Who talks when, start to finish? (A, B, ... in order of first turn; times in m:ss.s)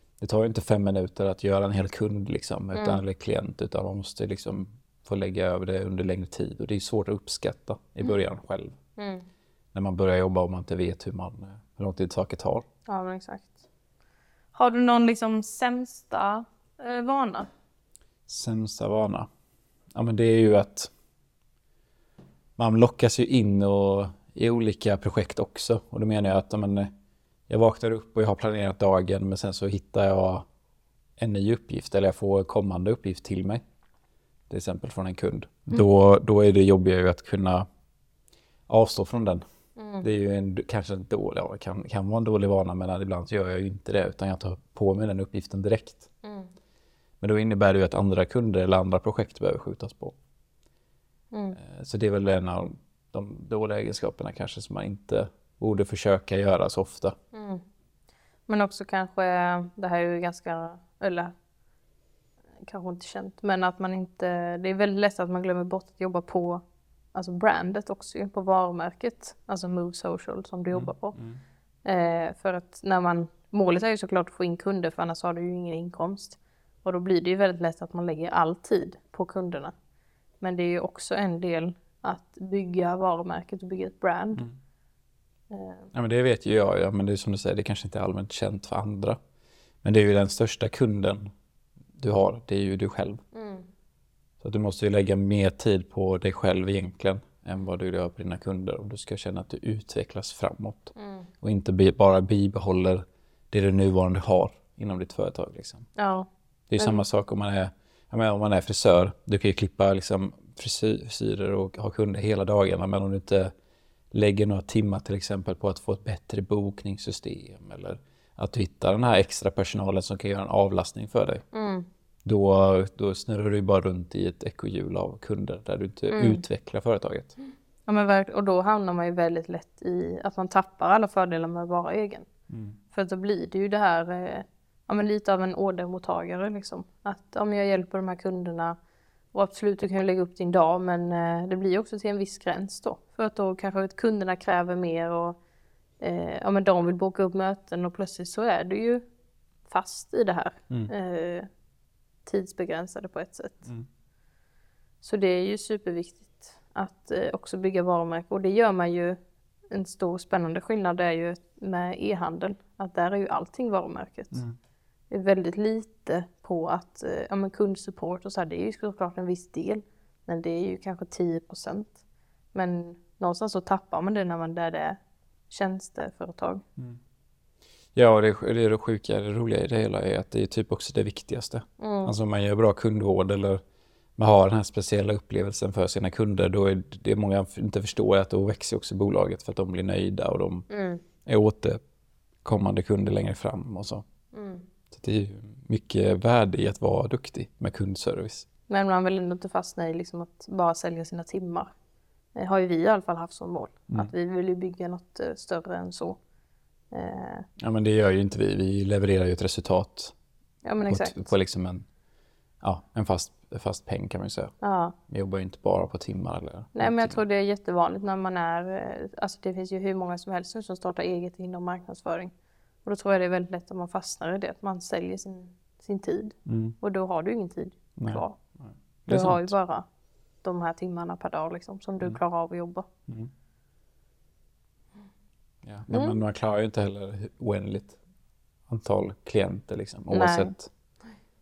0:00.2-0:08.8 A
0:02.7-0:03.0 B
0:09.0-0:09.2 B
0:09.7-0:12.6 A
0:12.9-0:13.6 B
0:14.5-0:17.5 B
0:18.3-0:19.3 A
0:19.9-0:20.9 A
0:22.6-0:26.9 A
0:27.5-0:30.4 A
0:31.2-0:33.6 A
0:34.5-0:37.6 A
0:38.7-0:39.4 A
0:39.8-0:40.1 B
0:40.0-0:46.1 A
0:46.2-0:46.5 B
0:47.2-0:50.1 A
0:51.3-0:51.6 B
0:51.6-0:57.1 A
0:57.3-0:57.6 B
0:58.5-1:01.3 B
1:02.6-1:06.6 B
1:07.1-1:11.2 B
1:10.7-1:11.4 A
1:11.8-1:19.7 B
1:20.4-1:24.4 B
1:25.5-1:25.9 B
1:25.9-1:29.2 A
1:29.8-1:31.3 A
1:32.0-1:33.2 A
1:33.3-1:33.6 B
1:34.4-1:45.9 A
1:40.9-1:41.3 B
1:46.0-1:47.0 B
1:46.7-1:53.5 A
1:54.1-2:01.4 A
2:01.5-2:01.9 B
2:02.2-2:07.3 A
2:06.1-2:06.4 B
2:07.9-2:12.3 B
2:12.5-2:12.8 A
2:12.9-2:18.7 B
2:19.3-2:25.4 B
2:26.0-2:29.0 B
2:29.6-2:31.5 B
2:32.2-2:33.7 B
2:35.0-2:39.2 B
2:39.7-2:44.4 B
2:45.1-2:52.0 B
2:52.5-2:56.6 B
2:57.9-3:03.6 A
3:01.8-3:02.1 B
3:04.2-3:10.7 A
3:10.7-3:11.0 B
3:11.2-3:11.8 A
3:12.4-3:14.0 A
3:14.3-3:14.6 B
3:14.9-3:18.5 A
3:18.7-3:21.7 B
3:22.3-3:26.2 B
3:26.9-3:27.4 B
3:27.6-3:30.1 A
3:30.6-3:31.3 B
3:30.8-3:31.8 A
3:32.6-3:34.5 A
3:34.6-3:35.0 B
3:35.1-3:37.2 A
3:36.7-3:42.3 B
3:42.8-3:48.4 B
3:46.4-3:46.8 A
3:48.0-3:49.5 A
3:49.1-3:49.8 B
3:50.4-3:52.8 B
3:55.6-3:58.0 A
3:55.9-3:56.2 B
3:58.7-4:00.7 A
4:00.1-4:00.5 B